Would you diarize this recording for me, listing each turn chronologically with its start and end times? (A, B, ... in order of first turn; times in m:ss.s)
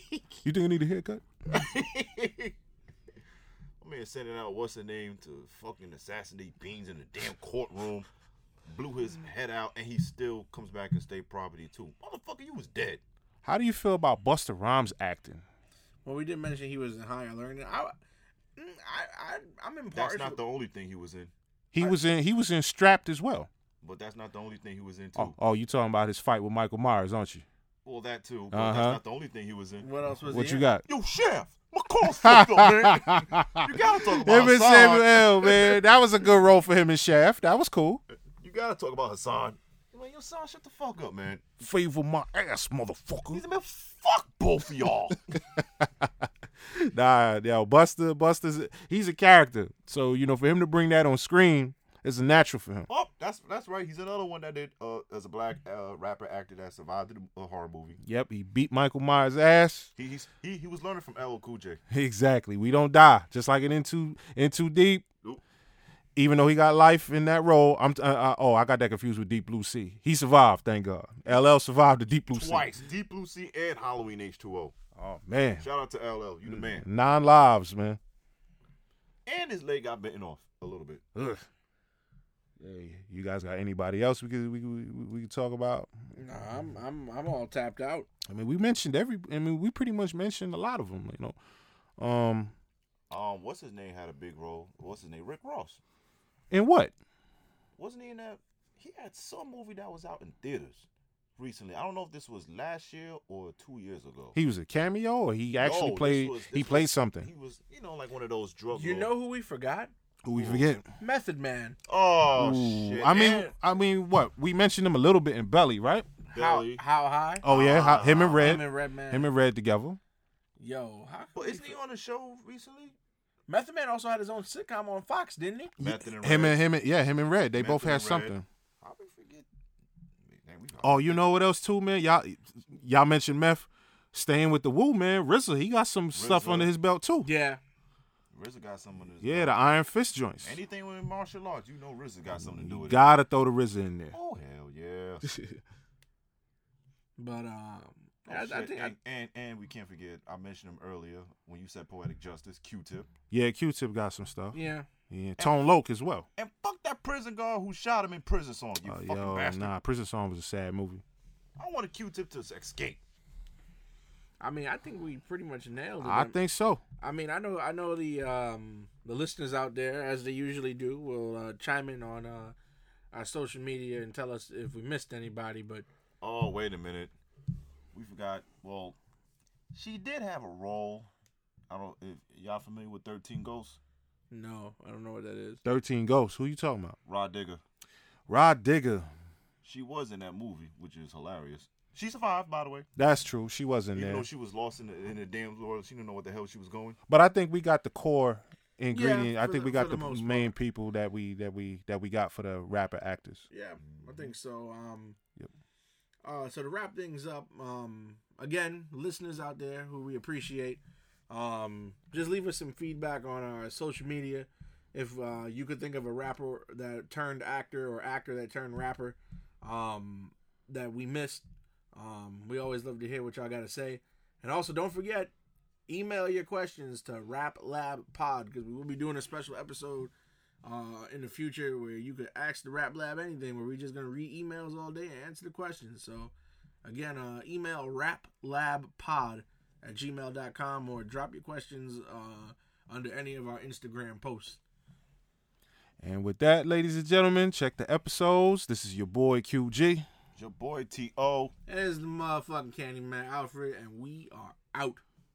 0:00.4-0:01.2 A
0:01.5-0:02.5 B
0:03.8-0:08.1 B
0:08.7-0:13.0 B
0:13.4-0:15.4 A
0:16.0-0:17.9 C
0:18.6-0:20.4 C
0:19.9-0:21.3 B
0:21.7-0:23.5 A
0:23.8-0:25.4 B
0:25.2-0:27.4 A
0:27.8-0:29.9 B
0:28.5-0:29.0 A
0:29.8-0:30.7 C
0:30.3-0:30.8 A
0:30.9-0:35.8 B
0:32.0-0:38.0 A
0:38.4-0:41.5 B
0:41.6-0:43.4 A
0:43.3-0:45.2 B
0:45.3-0:52.9 A
0:52.9-0:58.0 B
0:58.0-0:59.9 A
1:00.0-1:01.8 B
1:01.9-1:05.1 A
1:06.2-1:12.7 A
1:12.3-1:14.8 B
1:15.0-1:15.7 A
1:15.6-1:16.9 B
1:16.5-1:18.0 A
1:19.3-1:21.0 B
1:21.2-1:21.5 A
1:22.6-1:25.9 A
1:26.2-1:28.1 C
1:28.3-1:31.4 A
1:32.0-1:32.5 A
1:33.1-1:35.8 B
1:36.5-1:36.9 A
1:37.8-1:44.4 B
1:44.4-1:47.3 A
1:45.6-1:49.1 B
1:48.7-1:49.9 C
1:50.2-1:50.8 A
1:50.3-1:50.7 B
1:51.0-1:51.8 C
1:51.9-1:53.5 B
1:52.3-1:56.1 A
1:56.3-1:56.8 B
1:56.3-1:57.4 C
1:57.4-2:00.0 A
1:57.5-1:58.6 B
1:58.4-1:59.3 C
2:00.6-2:01.8 C
2:01.4-2:03.0 B
2:03.5-2:05.7 C
2:05.8-2:06.6 B
2:05.8-2:08.4 A
2:07.5-2:09.5 B
2:10.2-2:11.2 B
2:10.8-2:17.3 A
2:16.1-2:16.7 B
2:17.2-2:17.6 C
2:18.3-2:19.5 B
2:19.2-2:20.6 A
2:20.4-2:23.0 B
2:22.4-2:24.2 A
2:24.1-2:25.3 B
2:25.3-2:25.6 A
2:27.2-2:29.0 C
2:28.3-2:33.1 B
2:33.3-2:34.6 A
2:34.5-2:34.9 C
2:35.1-2:36.3 A
2:35.4-2:35.7 B
2:36.4-2:39.7 B
2:38.9-2:41.0 A
2:41.6-2:43.0 B
2:44.4-2:46.4 C
2:46.0-2:46.8 A
2:47.0-2:52.6 C
2:53.1-2:55.9 C
2:56.2-2:57.1 B
2:57.9-2:59.0 B
2:59.7-3:01.1 B
3:01.7-3:03.8 B
3:04.3-3:05.6 C
3:05.6-3:07.0 A
3:07.1-3:07.6 B
3:08.3-3:09.1 A
3:09.6-3:12.9 B
3:13.0-3:14.3 A
3:14.0-3:17.0 B
3:17.1-3:23.4 A
3:18.9-3:20.5 C
3:23.5-3:25.2 C
3:23.8-3:24.3 B
3:26.2-3:45.3 C
3:45.9-3:50.1 C
3:50.6-3:56.3 C
3:56.8-4:04.6 C
4:06.0-4:10.1 A
4:10.4-4:11.5 B
4:11.7-4:15.0 C